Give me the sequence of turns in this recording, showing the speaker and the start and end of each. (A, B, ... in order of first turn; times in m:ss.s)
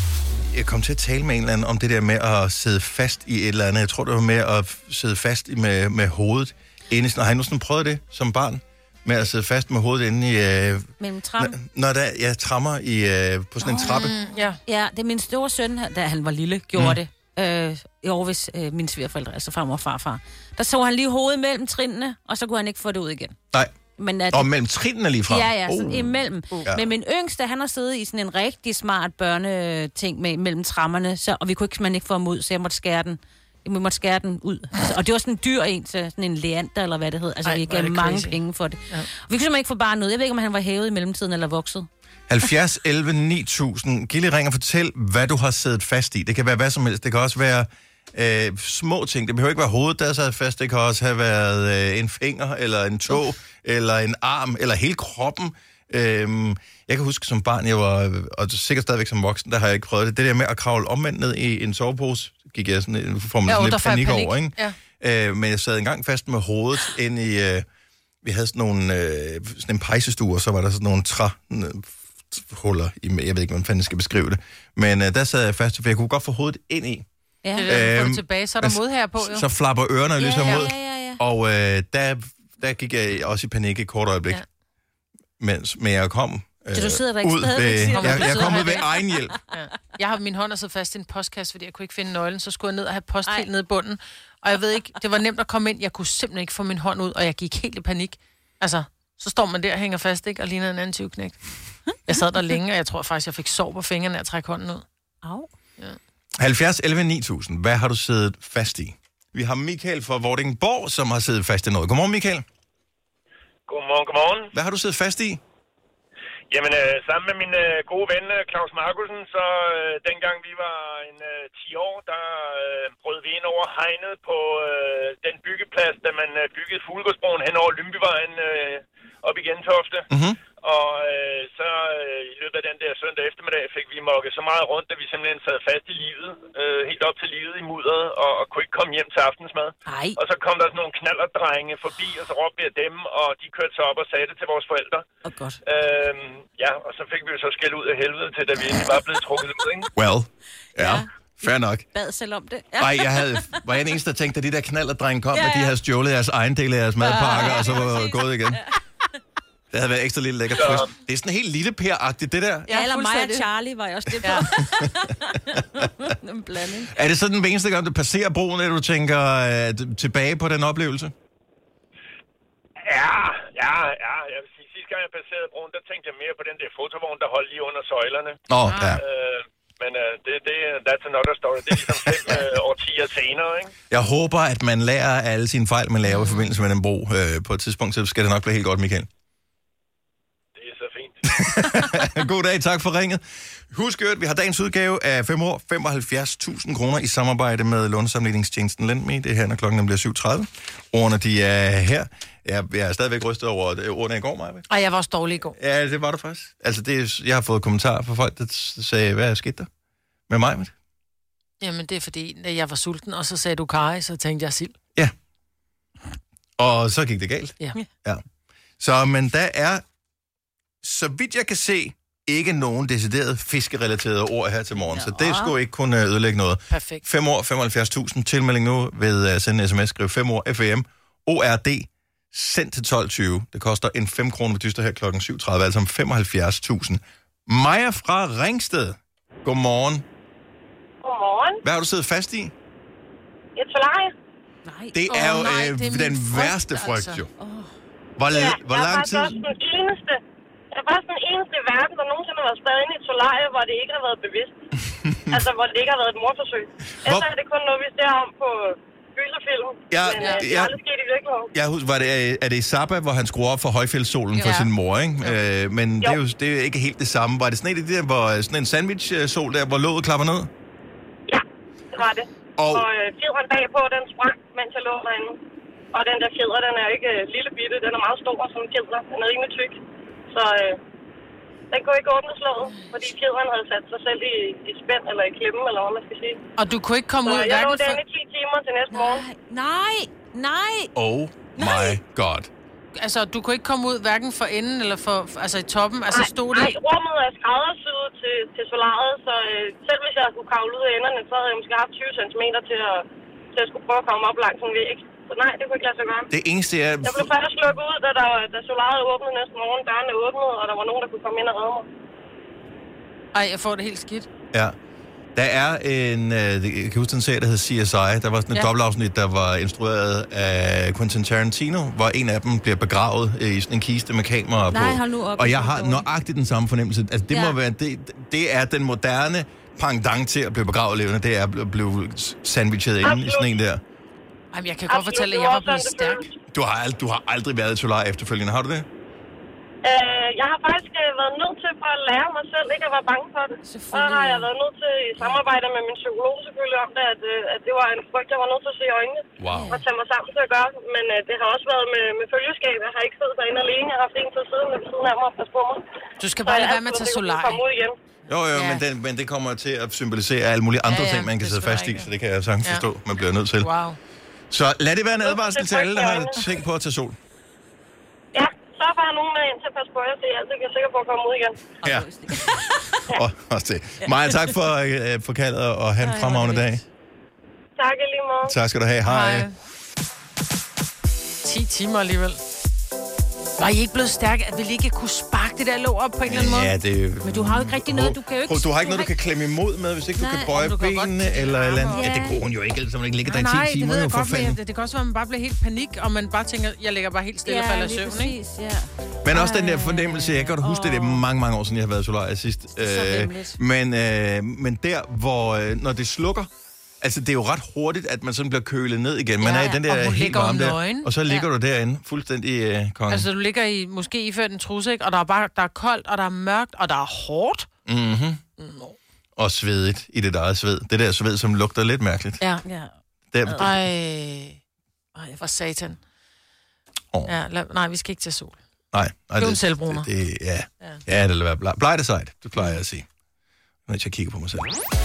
0:00.5-0:14.1 A
0:11.0-0:11.6 B
0:13.6-0:14.1 B
0:13.9-0:14.6 C
0:14.6-0:23.4 B
0:24.0-0:24.5 B
0:24.3-0:26.1 A
0:25.3-0:41.9 B
0:37.4-0:39.1 C
0:42.3-1:07.6 A
1:03.4-1:04.8 C
1:08.2-1:17.0 A
1:17.4-1:17.8 B
1:17.5-1:19.4 C
1:17.7-1:24.4 A
1:20.2-1:21.2 B
1:25.4-1:29.4 A
1:26.7-1:29.5 B
1:27.8-1:28.8 C
1:29.5-1:41.4 C
1:42.0-1:44.8 C
1:45.2-1:45.5 B
1:46.4-1:52.4 A
1:53.7-1:54.5 D
1:54.5-1:55.4 A
1:56.5-2:10.1 D
2:10.1-2:10.4 A
2:10.6-2:25.0 D
2:19.8-2:20.2 B
2:25.2-2:25.6 B
2:25.6-2:29.9 D
2:30.0-2:31.8 A
2:30.8-2:33.6 B
2:32.8-2:38.6 A
2:35.3-2:35.7 B
2:37.0-2:38.8 B
2:39.7-2:42.8 A
2:40.5-2:40.9 D
2:42.7-2:47.0 B
2:42.7-2:43.5 C
2:44.2-2:44.5 C
2:46.9-2:51.1 A
2:52.8-2:58.4 D
2:58.5-2:59.0 A
2:58.6-2:59.0 C
2:58.9-3:03.7 D
3:03.9-3:09.1 A
3:06.1-3:06.4 C
3:10.6-3:11.6 D
3:11.2-3:24.7 A
3:24.7-3:25.5 C
3:25.5-3:29.7 A
3:30.3-3:30.7 A
3:31.6-3:34.7 C
3:36.6-3:38.2 A
3:38.8-3:39.8 A
3:40.8-4:00.0 A
3:44.8-3:45.5 B
3:46.7-3:47.0 C
4:01.0-4:01.6 E
4:01.6-4:02.5 A
4:03.6-4:04.1 E
4:04.6-4:05.1 B
4:04.9-4:07.3 A
4:05.1-4:07.2 C
4:07.4-4:07.7 B
4:08.2-4:09.3 A
4:08.3-4:10.2 E
4:10.7-4:14.6 E
4:15.1-4:15.3 A
4:15.3-4:21.5 E
4:19.9-4:20.7 A
4:20.1-4:20.4 C
4:21.5-4:30.5 A
4:24.3-4:24.7 C
4:31.3-4:35.4 E
4:32.6-4:32.8 A
4:35.9-4:39.8 E
4:40.3-4:40.8 E
4:41.7-4:46.4 E
4:42.6-4:43.1 B
4:46.6-4:48.0 C
4:47.2-4:49.3 E
4:48.9-4:50.9 B
4:51.0-4:52.5 A
4:51.6-4:52.0 B
4:52.9-4:56.8 C
4:56.1-5:06.3 E
5:06.3-5:07.3 A
5:07.0-5:11.9 E
5:13.3-5:14.3 C
5:15.3-5:33.8 A
5:24.7-5:26.0 B
5:27.3-5:27.6 B
5:33.0-5:33.5 E
5:34.5-5:36.3 C
5:34.9-5:36.3 E
5:36.5-5:38.8 A
5:39.8-5:55.8 E
5:43.6-5:44.5 B
5:45.2-5:45.4 B
5:49.4-5:49.7 A
5:49.4-5:49.8 B
5:56.2-5:57.6 C
5:56.4-5:58.0 E
5:58.3-6:03.7 A
5:58.5-5:58.8 C
6:00.8-6:02.1 C
6:03.6-6:04.0 C
6:04.5-6:07.2 A
6:05.2-6:06.4 E
6:08.3-6:11.7 E
6:11.8-6:13.0 B
6:11.8-6:12.5 A
6:13.1-6:16.8 A
6:14.0-6:14.4 C
6:16.0-6:16.7 B
6:17.8-6:18.5 E
6:18.4-6:19.5 A
6:19.1-6:19.5 C
6:21.4-6:22.4 C
6:23.6-6:26.7 C
6:26.3-6:34.6 A
6:27.2-6:29.1 B
6:30.2-6:30.5 B
6:30.5-6:32.1 C
6:31.9-6:32.4 B
6:33.3-6:38.4 C
6:37.4-6:41.2 B
6:39.2-6:46.5 A
6:42.8-6:43.6 B
6:47.0-6:53.3 A
6:49.4-6:49.8 B
6:49.5-6:51.1 C
6:51.2-6:51.5 B
6:53.1-6:57.7 C
6:57.8-6:58.4 A
6:58.6-6:59.0 C
6:59.4-7:02.4 A
7:02.6-7:02.9 B
7:03.3-7:03.8 A
7:03.5-7:03.7 B
7:03.6-7:04.6 C
7:05.1-7:06.0 C
7:07.3-7:08.6 C
7:08.9-7:13.0 A
7:09.4-7:10.1 C
7:13.9-7:14.7 A